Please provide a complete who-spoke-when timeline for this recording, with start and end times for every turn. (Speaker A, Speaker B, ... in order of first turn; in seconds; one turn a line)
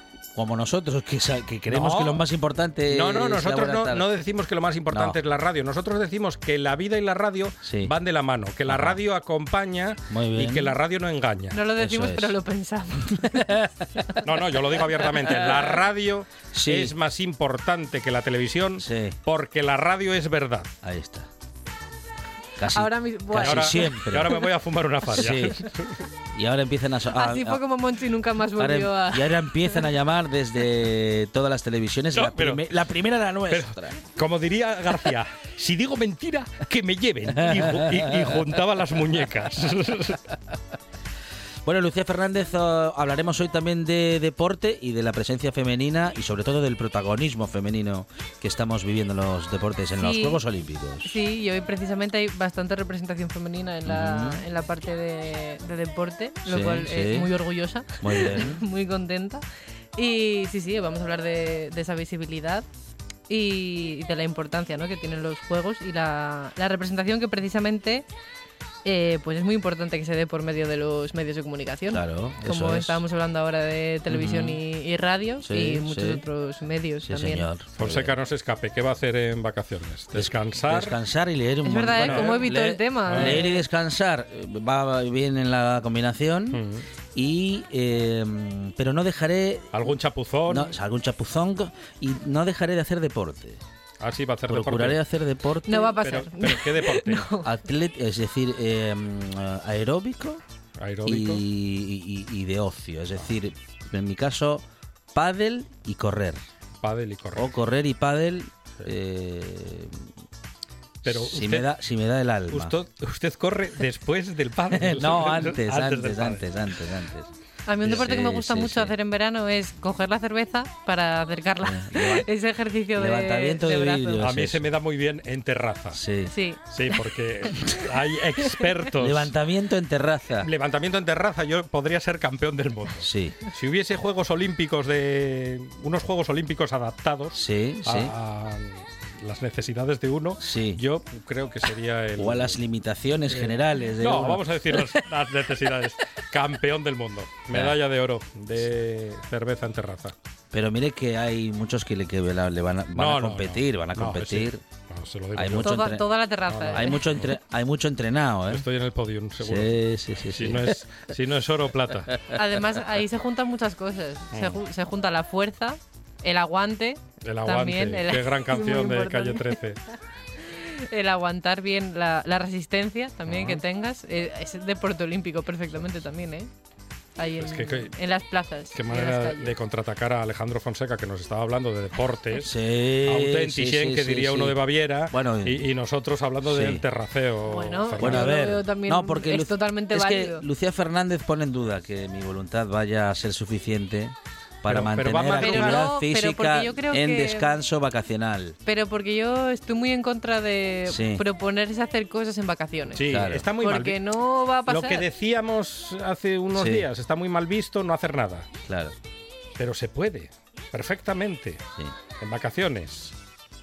Speaker A: 0.3-4.1
Speaker B: 1.7-2.2
Speaker B: 2.9-11.6
Speaker A: 4.9-5.2
Speaker A: 7.6-7.9
Speaker A: 8.7-9.0
Speaker A: 10.1-10.8
Speaker C: 11.5-13.3
Speaker A: 11.7-12.3
Speaker A: 13.2-14.1
Speaker B: 14.2-20.7
Speaker A: 15.3-15.6
Speaker A: 16.5-16.9
Speaker A: 18.8-19.2
Speaker A: 20.8-21.3
Speaker A: 22.6-24.4
Speaker C: 22.7-24.4
Speaker B: 23.3-26.0
Speaker A: 25.1-25.6
Speaker A: 26.3-27.6
Speaker C: 27.1-29.8
Speaker A: 28.6-34.0
Speaker B: 32.1-32.6
Speaker B: 33.5-40.2
Speaker A: 37.4-38.4
Speaker A: 41.6-51.1
Speaker C: 50.0-50.4
Speaker C: 51.0-59.4
Speaker A: 53.9-54.4
Speaker A: 56.5-57.3
Speaker A: 58.0-58.6
Speaker C: 60.0-62.6
Speaker C: 63.3-68.0
Speaker C: 68.8-77.5
Speaker A: 71.9-73.0
Speaker A: 74.1-74.6
Speaker A: 75.4-76.2
Speaker A: 77.0-78.1
Speaker B: 77.8-81.0
Speaker A: 80.1-89.9
Speaker C: 81.6-83.6
Speaker B: 82.0-82.4
Speaker B: 83.1-83.4
Speaker B: 86.5-86.8
Speaker B: 89.7-90.7
Speaker A: 90.5-93.6
Speaker B: 94.0-95.0
Speaker A: 94.5-96.0
Speaker C: 95.7-97.5
Speaker B: 96.0-97.3
Speaker A: 97.4-100.4
Speaker B: 100.8-101.4
Speaker A: 101.0-104.6
Speaker A: 105.1-106.4
Speaker B: 106.8-107.5
Speaker A: 107.3-110.1
Speaker B: 111.0-111.7
Speaker A: 111.0-112.8
Speaker B: 112.5-116.5
Speaker A: 114.7-117.3
Speaker C: 117.7-124.2
Speaker A: 117.8-118.9
Speaker A: 121.6-122.3
Speaker A: 122.9-124.6
Speaker B: 124.2-126.0
Speaker A: 125.9-126.3
Speaker C: 126.3-126.7
Speaker B: 126.7-129.3
Speaker A: 129.0-130.5
Speaker B: 130.4-142.6
Speaker A: 133.0-133.4
Speaker A: 137.3-138.1
Speaker A: 140.4-140.8
Speaker A: 142.2-145.0
Speaker B: 143.3-150.1
Speaker A: 147.5-147.8
Speaker A: 150.5-154.6
Speaker B: 152.9-155.9
Speaker A: 155.3-156.1
Speaker C: 155.6-157.0
Speaker B: 156.5-157.2
Speaker A: 156.7-158.7
Speaker B: 158.5-162.2
Speaker A: 159.4-160.8
Speaker C: 162.3-169.6
Speaker B: 164.3-164.6
Speaker B: 167.2-169.8
Speaker C: 170.5-176.5
Speaker C: 177.2-179.6
Speaker B: 177.4-177.9
Speaker B: 178.7-182.5
Speaker A: 182.4-185.6
Speaker B: 183.0-188.4
Speaker A: 186.4-186.8
Speaker C: 187.5-190.4
Speaker A: 188.0-198.6
Speaker B: 194.7-195.9
Speaker C: 195.4-197.6
Speaker C: 198.6-203.0
Speaker A: 200.9-201.2
Speaker B: 202.9-204.0
Speaker A: 203.0-203.5
Speaker C: 203.6-205.0
Speaker B: 204.7-208.5
Speaker A: 206.5-206.9
Speaker A: 208.7-208.9
Speaker B: 209.6-211.6
Speaker B: 212.2-213.1